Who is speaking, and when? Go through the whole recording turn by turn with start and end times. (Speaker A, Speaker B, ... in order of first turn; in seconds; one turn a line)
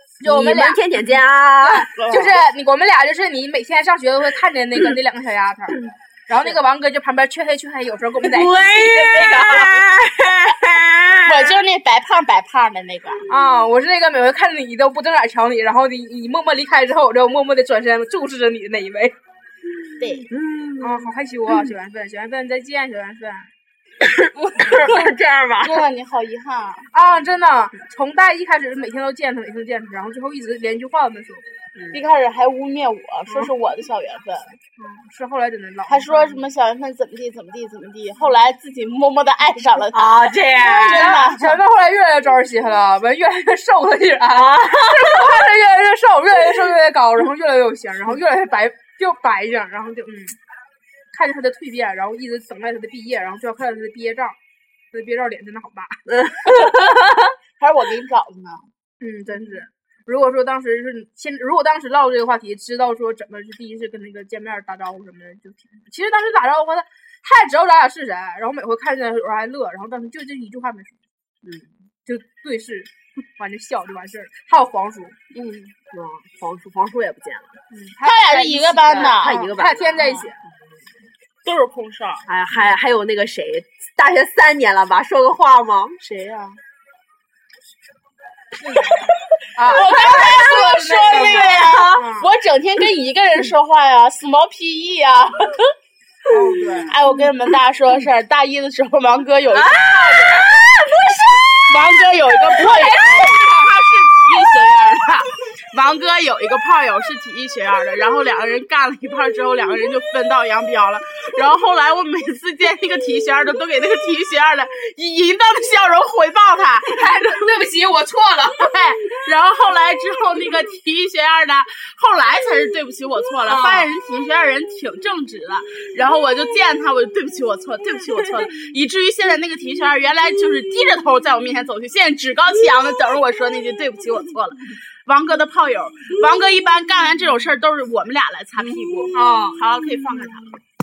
Speaker A: 0.2-9.8
Speaker B: 0.2-1.9
Speaker C: 1.9-2.4
Speaker B: 8.2-11.6
Speaker C: 11.2-13.2
Speaker A: 13.3-19.1
Speaker C: 20.0-20.2
Speaker B: 20.0-21.7
Speaker A: 20.8-23.5
Speaker B: 24.0-25.8
Speaker C: 24.6-25.1
Speaker A: 24.7-24.9
Speaker C: 25.6-26.9
Speaker A: 26.9-31.6
Speaker C: 31.9-34.6
Speaker A: 34.8-36.5
Speaker C: 35.9-41.6
Speaker B: 39.9-41.2
Speaker A: 40.6-50.4
Speaker B: 44.3-45.5
Speaker A: 51.1-54.4
Speaker A: 54.9-56.0
Speaker B: 56.1-57.3
Speaker C: 57.6-58.7
Speaker A: 59.0-71.0
Speaker B: 71.4-71.7
Speaker A: 72.0-75.2
Speaker C: 75.3-75.7
Speaker B: 75.9-77.5
Speaker A: 77.7-80.4
Speaker C: 78.0-79.5
Speaker B: 79.0-80.2
Speaker C: 81.4-82.2
Speaker B: 82.3-86.0
Speaker C: 86.0-86.6
Speaker A: 88.6-92.3
Speaker C: 89.6-95.7
Speaker B: 89.9-92.1
Speaker A: 96.3-97.0
Speaker C: 96.8-100.6
Speaker B: 99.5-103.3
Speaker C: 101.5-117.4
Speaker A: 102.5-103.7
Speaker A: 116.9-118.8
Speaker C: 118.6-140.6
Speaker A: 123.5-123.9
Speaker A: 139.1-139.6